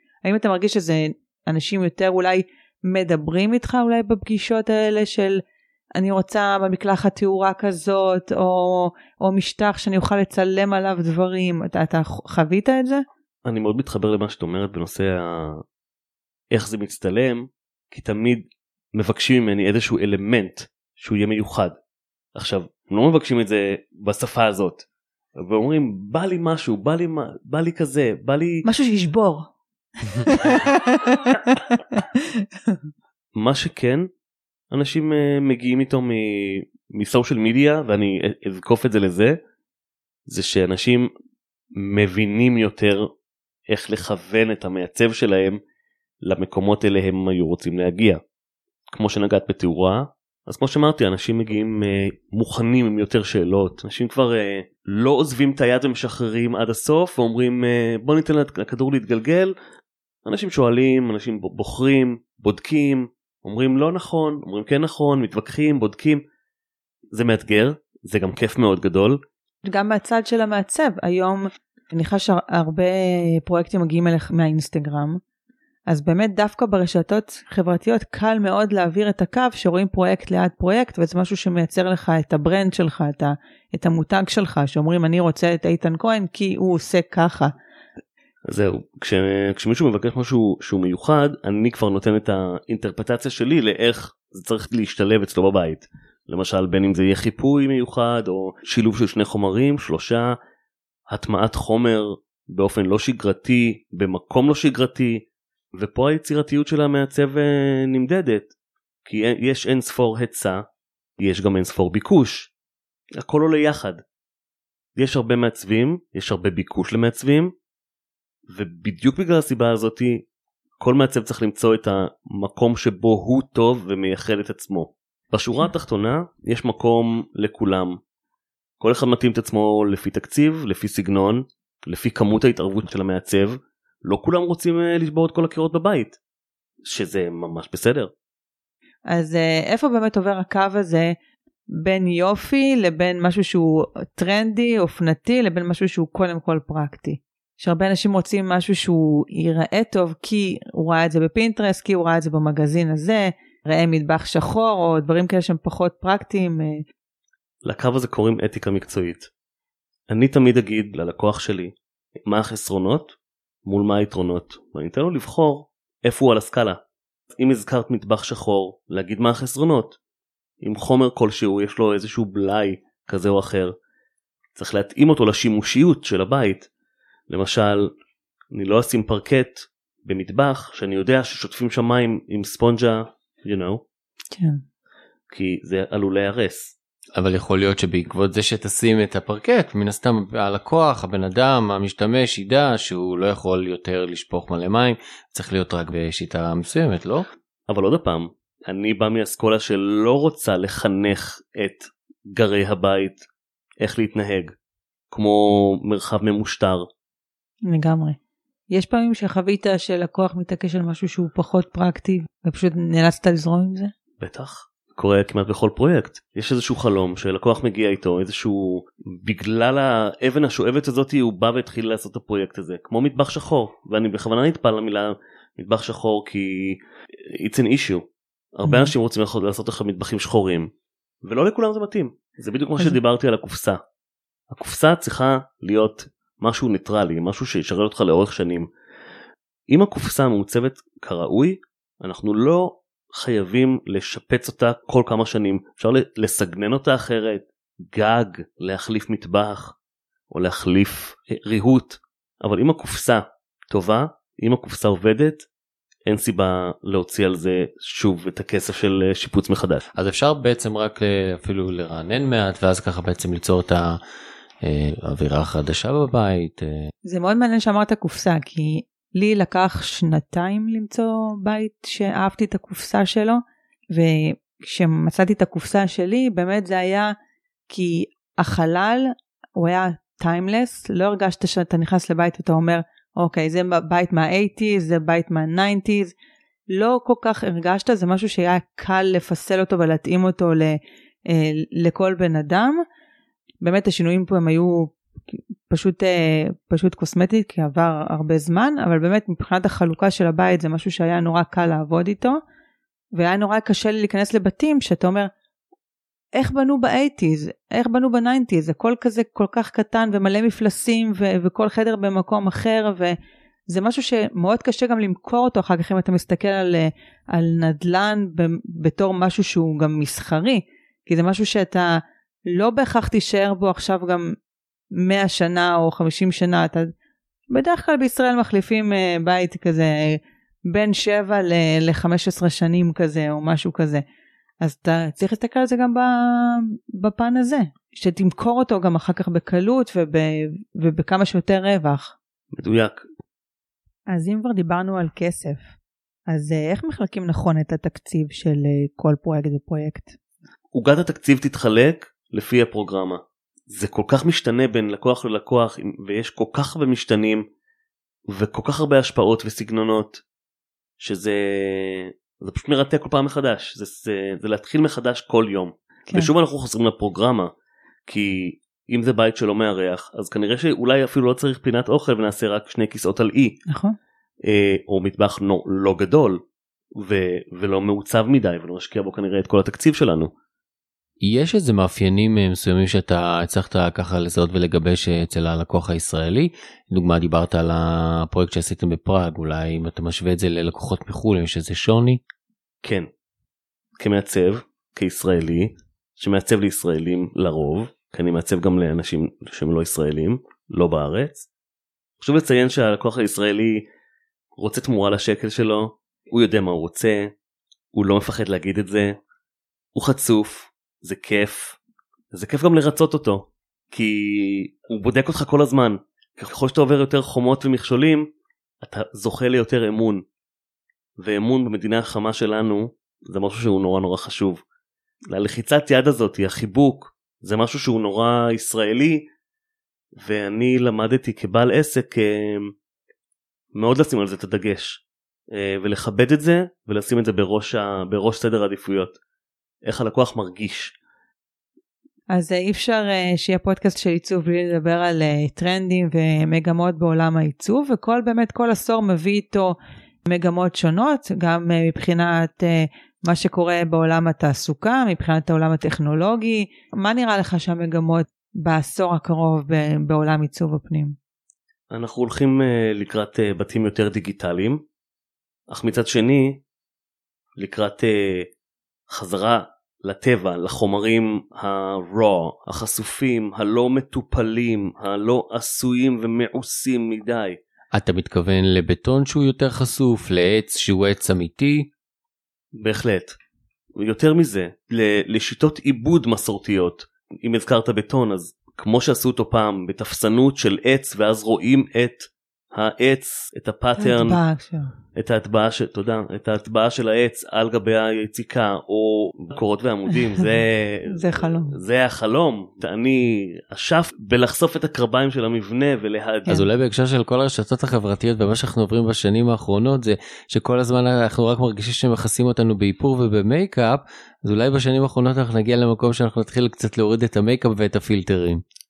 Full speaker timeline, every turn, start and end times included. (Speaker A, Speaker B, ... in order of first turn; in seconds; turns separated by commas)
Speaker A: 0.2-5.4, Speaker A: 6.0-13.0, Speaker B: 13.4-15.6, Speaker B: 16.5-21.7, Speaker B: 22.3-24.8, Speaker B: 25.4-28.6, Speaker A: 28.6-29.5, Speaker A: 30.1-32.0, Speaker B: 33.3-34.1, Speaker B: 34.7-39.4, Speaker B: 40.3-41.1, Speaker B: 41.7-43.1, Speaker B: 43.7-45.6, Speaker B: 46.2-48.2, Speaker B: 48.9-59.5, Speaker B: 60.2-66.2, Speaker B: 67.1-69.2, Speaker A: 69.6-75.2, Speaker A: 75.9-87.5, Speaker B: 88.5-100.4, Speaker B: 101.1-108.5, Speaker B: 109.0-110.6, Speaker B: 111.2-112.5, Speaker B: 113.2-114.0, Speaker B: 115.0-117.5, Speaker B: 118.5-120.2, Speaker B: 120.8-128.0, Speaker B: 128.8-136.2, Speaker B: 136.8-138.1, Speaker A: 139.1-141.1, Speaker A: 141.7-156.8, Speaker B: 157.6-159.3, Speaker B: 160.1-161.7, Speaker B: 162.2-166.8, Speaker B: 167.3-170.0, Speaker B: 170.6-173.7, Speaker B: 174.5-176.7, Speaker B: 177.3-177.9, Speaker B: 178.5-183.8, Speaker A: 184.3-184.6, Speaker B: 185.3-186.7, Speaker C: 187.1-197.3, Speaker B: 197.7-203.2, Speaker B: 203.8-204.5, Speaker B: 205.1-206.9, Speaker A: 207.7-208.2, Speaker A: 208.7-213.9, Speaker B: 214.2-230.7, Speaker A: 228.7-228.9, Speaker B: 231.2-233.8, Speaker B: 234.5-238.7, Speaker B: 239.7-249.7, Speaker B: 250.3-255.4, Speaker B: 256.1-259.8, Speaker C: 259.9-264.0, Speaker C: 264.6-266.9, Speaker A: 267.1-273.4, Speaker A: 273.9-277.1, Speaker A: 277.7-286.1, Speaker A: 286.7-292.8, Speaker A: 293.6-294.9, Speaker A: 295.7-302.4, Speaker A: 303.1-305.3, Speaker A: 306.4-313.1, Speaker A: 313.7-322.0, Speaker A: 322.5-324.3, Speaker A: 324.9-326.9, Speaker A: 327.5-330.2, Speaker A: 330.7-334.0, Speaker A: 334.6-342.1, Speaker B: 342.5-343.0, Speaker A: 344.1-345.7, Speaker A: 346.3-350.2, Speaker B: 350.7-357.4, Speaker B: 358.3-360.2, Speaker B: 361.0-367.5, Speaker B: 368.1-373.6, Speaker A: 373.7-373.9, Speaker B: 374.4-376.4, Speaker B: 376.9-380.3, Speaker C: 381.2-392.2, Speaker B: 392.8-393.1, Speaker B: 394.0-401.5, Speaker B: 402.2-403.8, Speaker B: 404.6-407.3, Speaker B: 407.9-409.2, Speaker B: 409.9-411.8, Speaker B: 412.3-418.3, Speaker B: 418.8-420.2, Speaker B: 421.2-424.6, Speaker B: 425.3-429.3, Speaker B: 430.2-432.7, Speaker B: 433.7-439.2, Speaker B: 439.8-440.9, Speaker A: 442.3-461.1, Speaker B: 461.9-464.8, Speaker B: 465.7-466.6, Speaker B: 467.6-468.5, Speaker B: 469.1-477.6, Speaker C: 477.9-481.9, Speaker B: 482.7-483.4, Speaker B: 483.9-494.4, Speaker A: 494.0-494.9, Speaker B: 495.1-506.6, Speaker A: 501.1-501.7, Speaker C: 506.5-518.6